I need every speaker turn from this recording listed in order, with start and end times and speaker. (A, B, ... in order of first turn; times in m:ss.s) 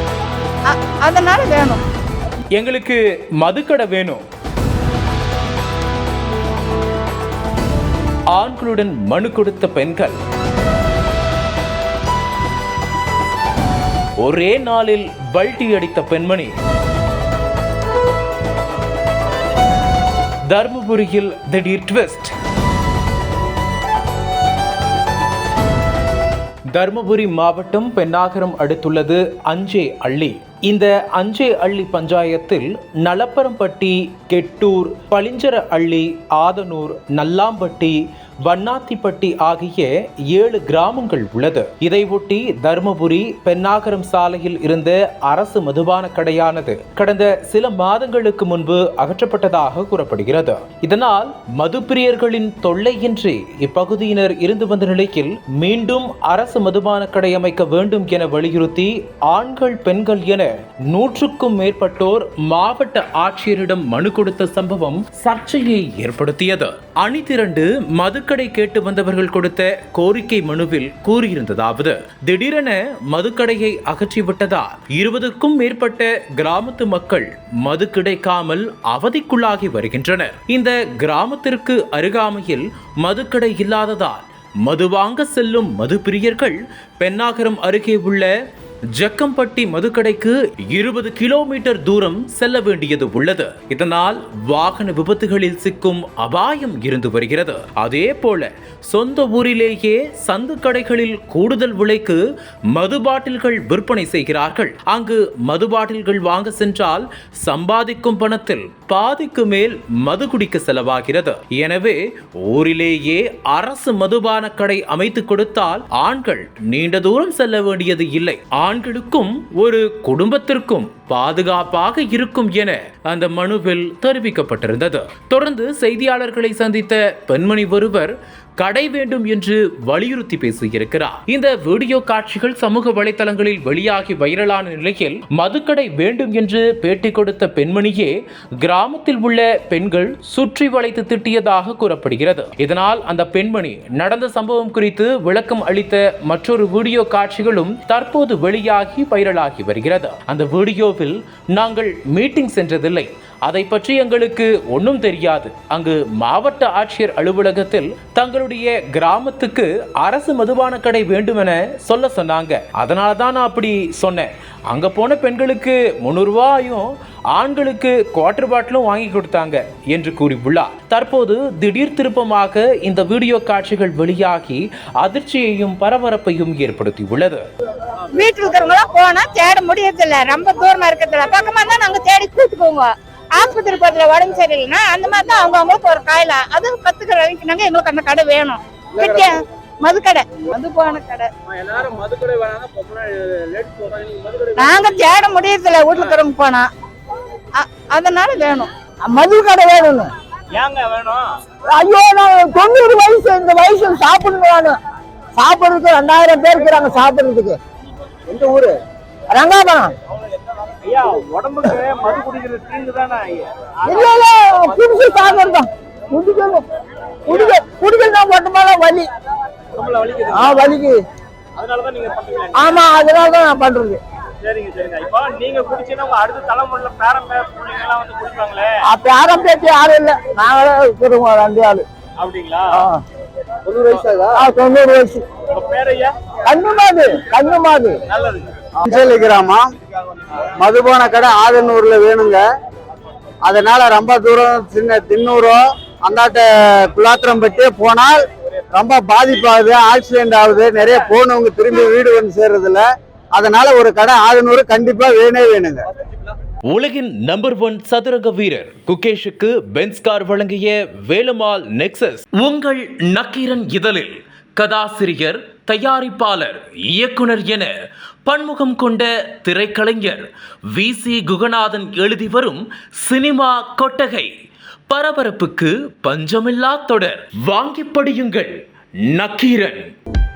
0:00.6-0:01.8 A
0:02.5-0:04.2 B
0:08.3-0:10.2 B
0:14.2-0:16.5 B
0:20.5-0:22.3 B
0:26.7-1:28.3 B
1:29.0-2:57.4 B
2:58.1-3:11.3 A
3:11.5-3:14.5 C
3:14.6-3:16.7 A
3:17.5-3:18.7 A
3:19.0-3:20.1 D
3:20.5-3:21.2 C
3:21.7-3:24.8 D
3:25.4-3:27.6 D
3:28.3-3:28.7 E
3:29.3-3:29.9 D
3:30.8-3:33.4 C
3:33.8-3:36.6 D
3:37.3-3:39.1 D
3:39.8-3:40.7 C
3:40.3-3:41.0 D
3:41.6-3:42.5 C
3:42.5-3:44.0 D
3:44.4-3:48.6 C
3:48.9-3:51.8 D
3:52.2-3:52.6 C
3:53.7-3:54.0 C
3:53.9-3:54.2 E
3:54.3-3:55.2 D
3:55.6-3:56.1 C
3:56.5-3:58.0 D
3:58.1-3:58.5 C
3:58.8-3:59.6 E
4:00.6-4:02.4 E
4:03.4-4:08.2 E
4:08.7-4:15.8 E
4:16.7-4:27.7 B
4:28.2-4:34.3 B
4:34.9-4:38.5 B
4:39.1-4:39.9 B